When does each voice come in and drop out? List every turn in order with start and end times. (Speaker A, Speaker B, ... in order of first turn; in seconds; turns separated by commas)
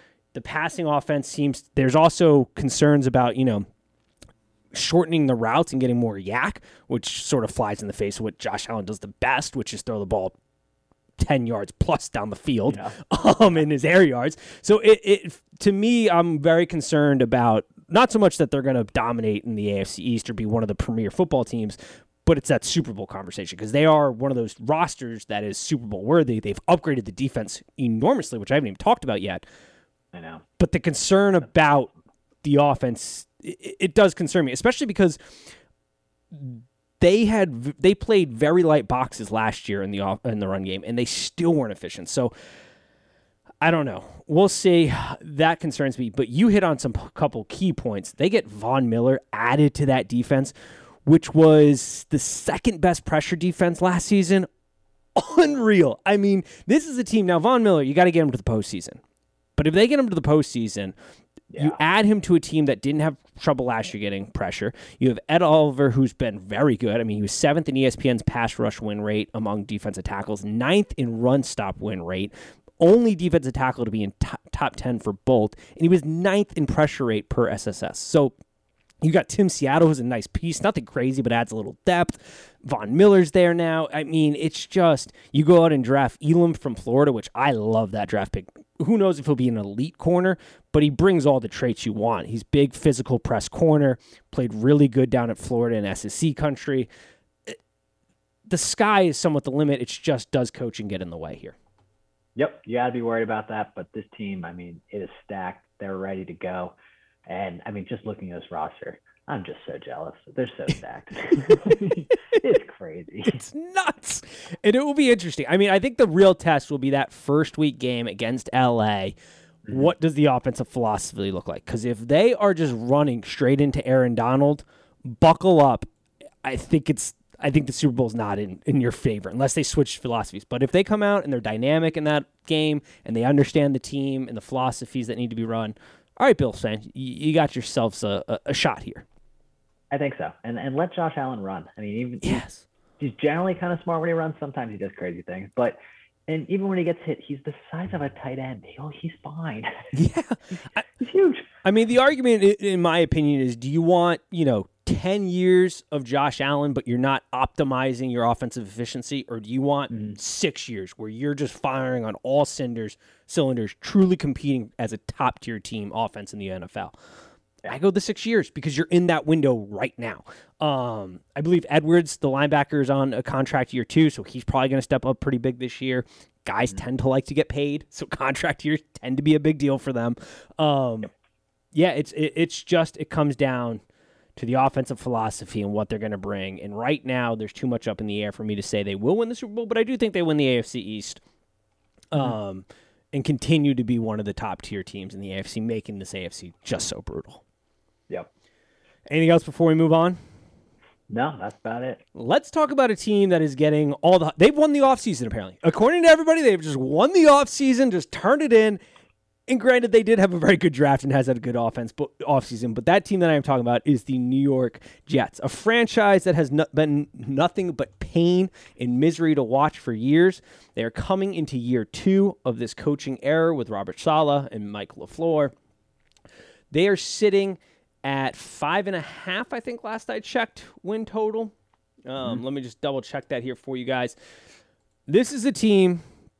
Speaker A: 0.3-3.6, Speaker A: 4.7-10.3, Speaker A: 11.2-29.4, Speaker B: 12.7-12.9, Speaker B: 30.1-30.4, Speaker A: 30.6-31.9, Speaker A: 32.4-35.2, Speaker A: 36.3-42.3, Speaker A: 43.6-50.5, Speaker A: 51.0-54.5, Speaker A: 55.1-59.0, Speaker A: 59.6-60.9, Speaker B: 61.5-61.8, Speaker A: 61.6-78.3, Speaker A: 79.0-96.9, Speaker A: 98.5-101.5, Speaker B: 102.3-106.7, Speaker B: 107.3-113.4, Speaker A: 111.3-112.4, Speaker A: 113.3-119.1, Speaker A: 119.7-125.8, Speaker A: 126.4-139.0, Speaker B: 139.9-142.4, Speaker A: 142.2-142.6, Speaker B: 143.0-145.8, Speaker B: 146.3-149.8, Speaker A: 149.9-150.8, Speaker B: 150.9-151.5, Speaker A: 151.6-166.9, Speaker A: 167.7-181.1, Speaker A: 181.7-183.8, Speaker A: 184.3-191.2, Speaker A: 192.1-197.4, Speaker A: 199.1-200.2, Speaker B: 201.1-202.0, Speaker A: 202.1-208.8, Speaker A: 209.5-225.5, Speaker A: 226.7-231.5, Speaker A: 232.1-234.2, Speaker A: 235.1-236.0